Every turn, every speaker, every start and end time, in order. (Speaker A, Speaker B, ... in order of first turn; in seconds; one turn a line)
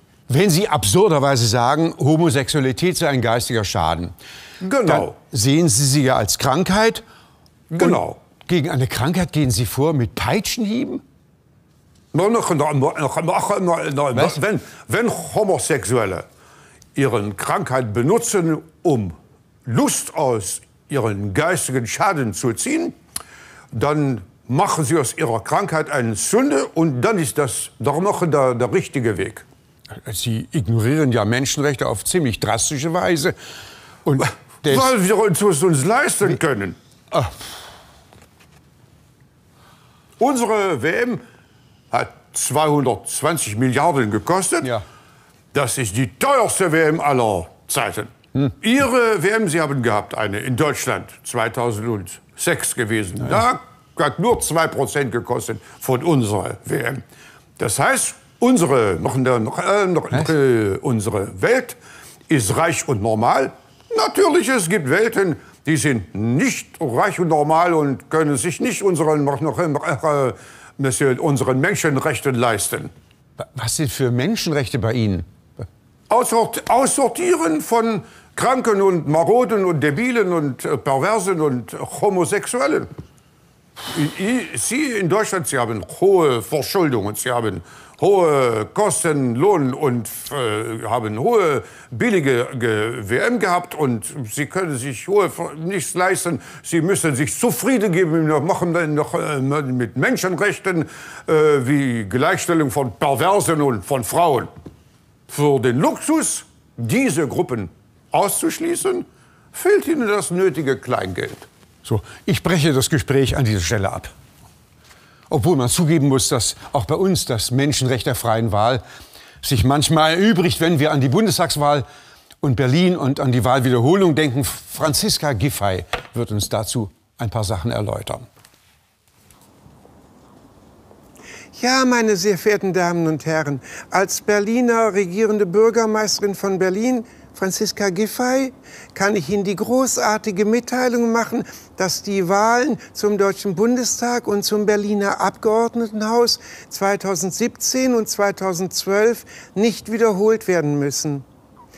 Speaker A: 0.3-4.1
Speaker B: 4.6-5.1
Speaker A: 4.8-7.0
Speaker B: 7.7-8.2
Speaker A: 7.8-11.0
Speaker B: 12.1-16.2
Speaker B: 16.9-22.9
Speaker B: 23.7-29.4
Speaker A: 29.9-33.3
Speaker A: 34.0-34.9
Speaker B: 34.7-36.8
Speaker A: 37.1-37.5
Speaker B: 40.2-41.2
Speaker B: 41.9-44.8
Speaker B: 45.5-57.0
Speaker B: 57.6-61.8
Speaker B: 62.3-72.9
Speaker A: 73.4-75.2
Speaker B: 76.1-82.9
Speaker B: 83.9-104.5
Speaker B: 105.3-111.5
Speaker A: 111.8-114.1
Speaker A: 115.3-118.8
Speaker A: 119.4-121.8
Speaker A: 122.4-128.2
Speaker C: 131.5-151.2